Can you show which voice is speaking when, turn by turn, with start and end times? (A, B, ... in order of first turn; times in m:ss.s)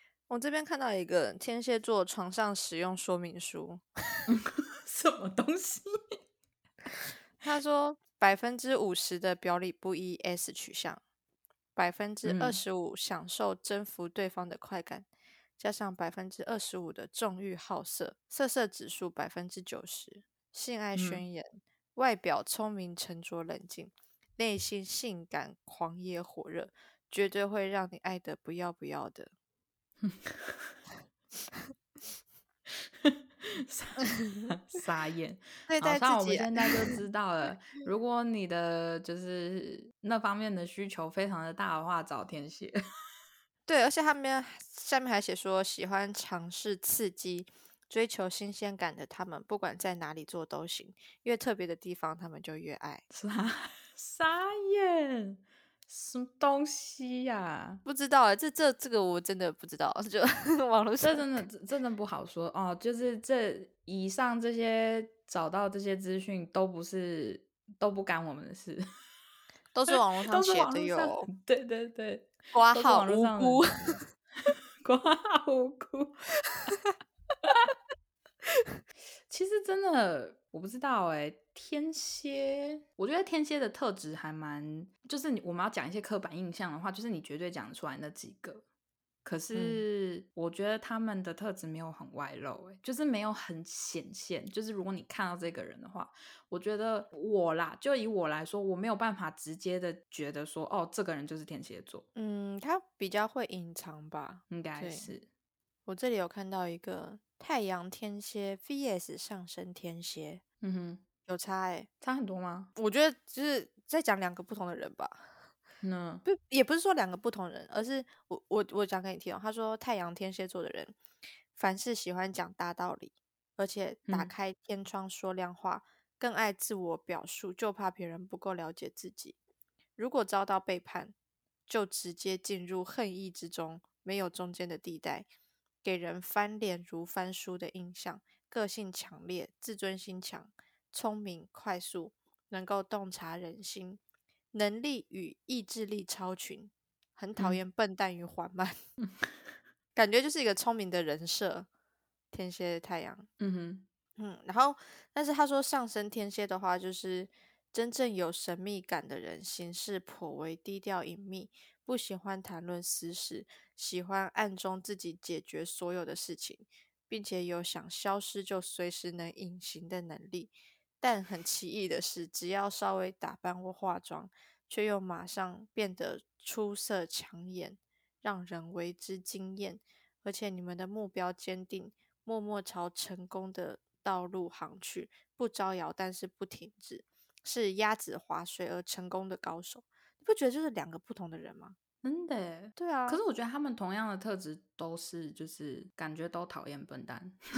0:00.3-0:03.8 A
0:04.3-0:05.9 B
0:07.4-0:11.0 A
0:11.8-0:15.1 A
0:12.2-0:12.6 B
0:15.6-0:29.3 A
0:20.9-0:21.2 B
0:30.0-0:30.7 B
0:32.7-0:42.8 B
0:35.7-0:37.0 A
0:43.7-0:53.0 A
0:53.1-0:57.8 B
0:57.8-1:01.4 A
1:01.0-1:08.8 B
1:09.7-1:11.3 A
1:09.9-1:13.9 B
1:12.5-1:14.0 A
1:14.8-1:16.2 B
1:19.3-1:28.6 B
1:29.2-1:42.0 B
1:29.5-1:29.8 A
1:42.1-1:45.1 A
1:44.5-1:45.3 B
1:45.8-1:50.4 A
1:50.6-1:51.0 B
1:51.3-1:51.9 A
1:52.0-1:52.7 B
1:52.7-1:55.3 A
1:55.8-1:56.2 B
1:56.2-2:01.0 A
2:01.5-2:09.4 A
2:04.1-2:04.3 B
2:10.0-2:11.1 A
2:11.7-2:15.3 A
2:15.8-2:24.0 A
2:24.5-2:28.8 A
2:29.0-2:29.3 B
2:29.9-2:31.7 A
2:32.3-2:33.3 A
2:33.4-2:33.8 B
2:34.2-3:11.8 A
3:12.0-3:17.4 B
3:12.8-3:13.2 A